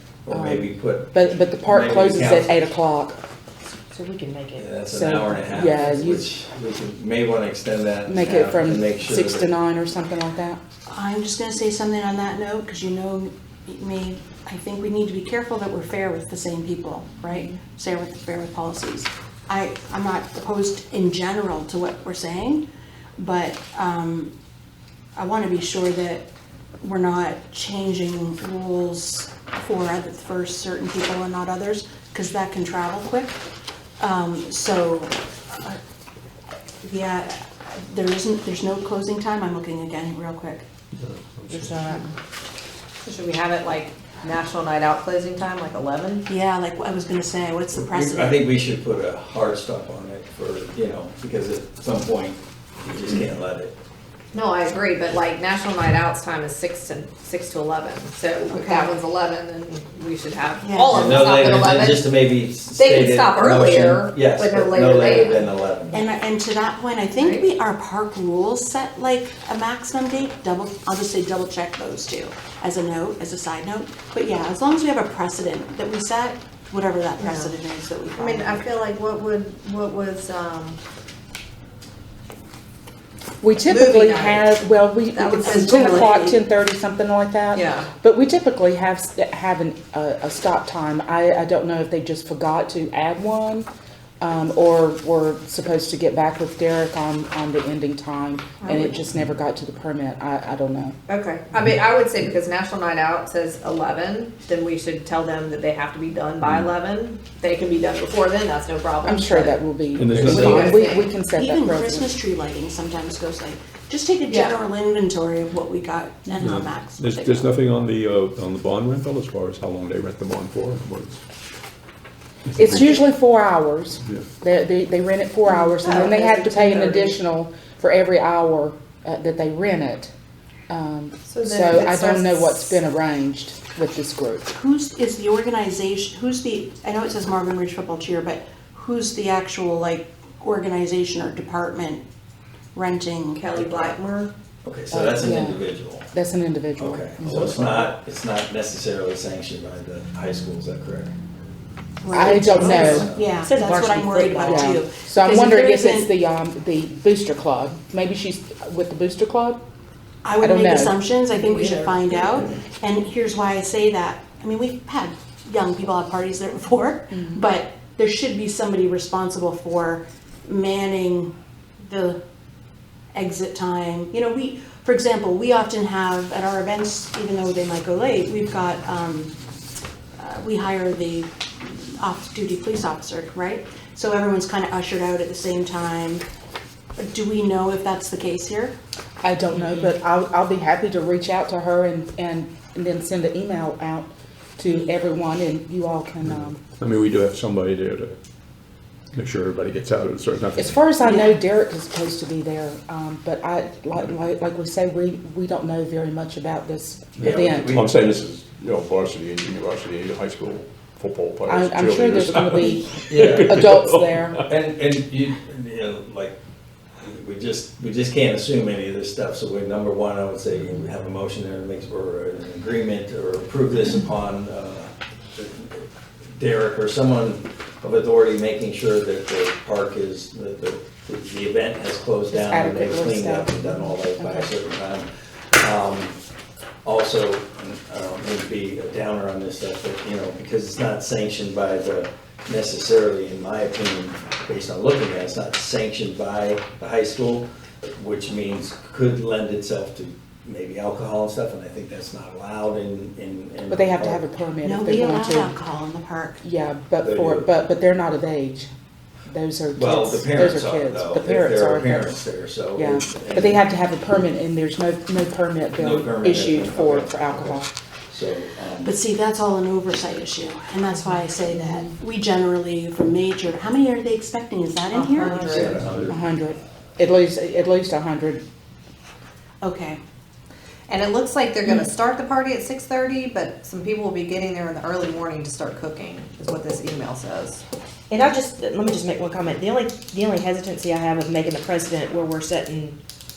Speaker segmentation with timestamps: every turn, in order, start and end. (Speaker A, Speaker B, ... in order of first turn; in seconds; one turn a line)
Speaker A: 0.3-2.6
Speaker B: 0.3-3.2
Speaker C: 3.9-4.7
Speaker A: 4.6-9.5
Speaker B: 4.9-6.3
Speaker B: 8.1-10.6
Speaker D: 10.9-22.6
Speaker D: 23.2-24.3
Speaker D: 25.1-26.3
Speaker D: 26.8-33.4
Speaker D: 34.0-35.8
Speaker D: 36.8-40.6
Speaker E: 41.0-41.9
Speaker C: 41.5-42.1
Speaker F: 43.0-46.2
Speaker D: 46.3-48.5
Speaker A: 47.7-53.8
Speaker F: 54.3-62.1
Speaker D: 58.5-59.0
Speaker D: 60.6-61.3
Speaker A: 60.9-66.0
Speaker F: 62.8-65.5
Speaker D: 65.9-78.6
Speaker F: 67.2-67.5
Speaker F: 77.2-77.5
Speaker F: 78.2-80.8
Speaker B: 83.4-93.7
Speaker F: 83.7-84.5
Speaker F: 85.1-86.2
Speaker D: 85.4-86.3
Speaker F: 87.5-87.9
Speaker B: 94.2-101.0
Speaker F: 98.6-99.0
Speaker F: 101.1-109.7
Speaker B: 109.0-112.1
Speaker E: 110.0-110.9
Speaker A: 110.1-110.7
Speaker F: 110.2-111.1
Speaker D: 111.3-117.5
Speaker F: 114.3-114.5
Speaker E: 116.4-121.2
Speaker E: 122.5-123.0
Speaker B: 122.5-130.1
Speaker F: 125.5-127.1
Speaker B: 130.7-134.5
Speaker F: 131.3-132.8
Speaker D: 134.5-142.0
Speaker D: 142.7-143.4
Speaker F: 143.3-144.3
Speaker A: 143.5-143.9
Speaker A: 144.6-146.1
Speaker B: 144.9-147.8
Speaker A: 146.8-151.1
Speaker D: 152.0-156.1
Speaker B: 152.1-153.1
Speaker A: 152.3-153.3
Speaker C: 153.3-154.8
Speaker B: 154.3-159.6
Speaker D: 160.2-172.2
Speaker B: 160.4-161.0
Speaker F: 161.3-162.5
Speaker B: 167.1-167.4
Speaker D: 173.1-179.3
Speaker D: 180.2-186.2
Speaker D: 187.0-188.8
Speaker B: 189.2-196.6
Speaker F: 189.5-189.8
Speaker E: 196.2-198.2
Speaker E: 199.1-200.9
Speaker B: 200.6-207.8
Speaker A: 207.2-208.2
Speaker E: 207.3-214.4
Speaker B: 211.5-214.4
Speaker A: 213.1-213.7
Speaker A: 214.5-216.4
Speaker A: 217.0-236.2
Speaker B: 232.3-234.5
Speaker A: 236.8-254.2
Speaker B: 253.7-255.5
Speaker D: 254.6-256.4
Speaker B: 256.4-258.7
Speaker A: 257.0-257.5
Speaker B: 259.3-262.2
Speaker A: 259.7-263.6
Speaker B: 262.7-267.7
Speaker A: 265.7-268.9
Speaker D: 268.8-275.4
Speaker F: 274.9-275.8
Speaker A: 275.4-276.2
Speaker E: 275.5-276.1
Speaker B: 276.0-278.4
Speaker D: 279.6-280.0
Speaker F: 280.9-287.6
Speaker C: 288.1-293.0